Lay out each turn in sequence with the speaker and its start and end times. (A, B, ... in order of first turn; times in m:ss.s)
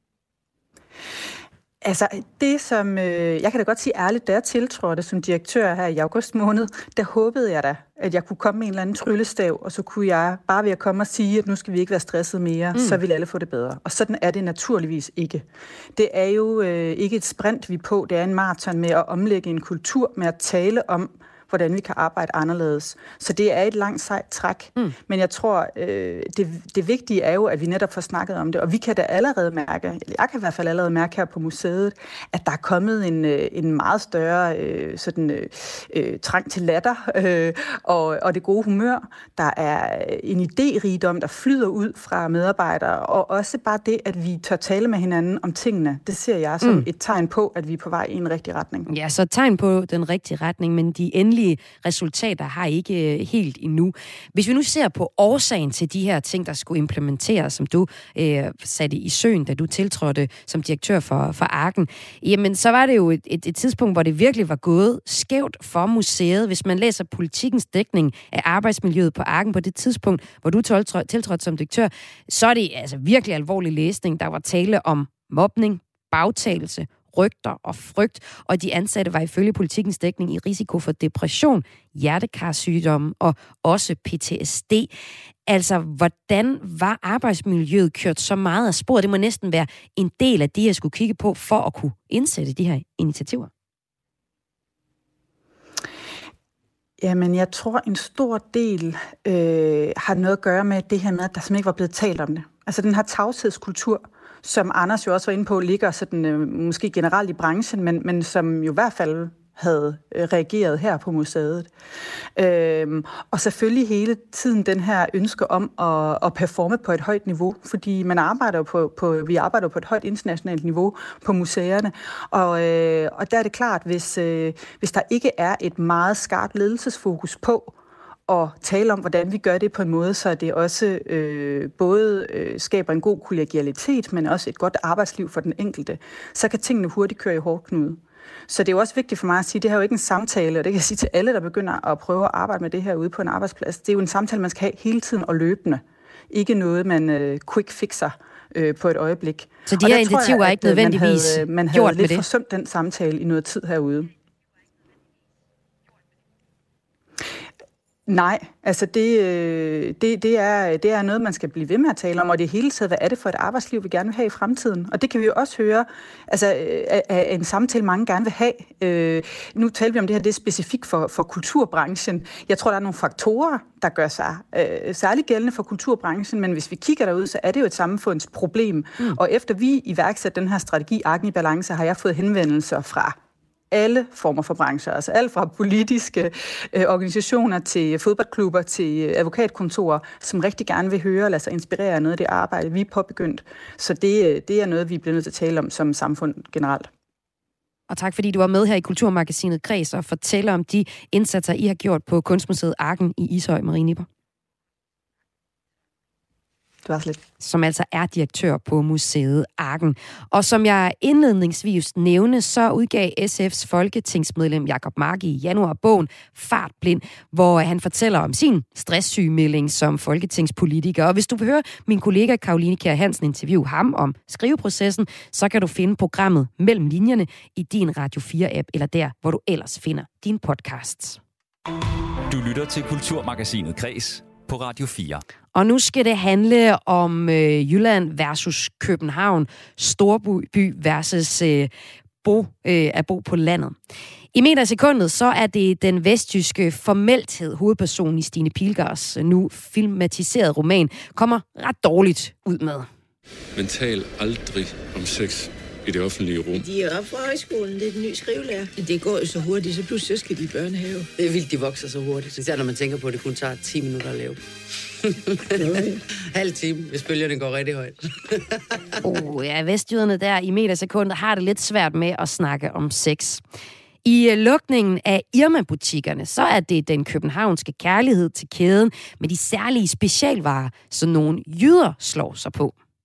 0:01.8-0:48.9 A
0:48.9-1:24.9 B
1:25.5-1:33.5 B
1:37.0-1:51.7 A
1:52.4-2:07.8 A
2:08.3-2:34.1 A
2:29.7-2:32.2 B
2:38.1-3:03.2 A
3:03.7-3:16.9 A
3:17.9-3:24.1 B
3:26.8-3:27.2 A
3:27.4-3:51.2 B
3:52.3-3:55.2 C
3:55.5-4:01.7 B
4:02.2-4:03.8 B
4:04.3-4:12.9 B
4:13.6-4:16.7 D
4:16.5-4:24.4 E
4:25.3-4:28.4 E
4:29.0-4:33.4 B
4:34.0-4:42.7 B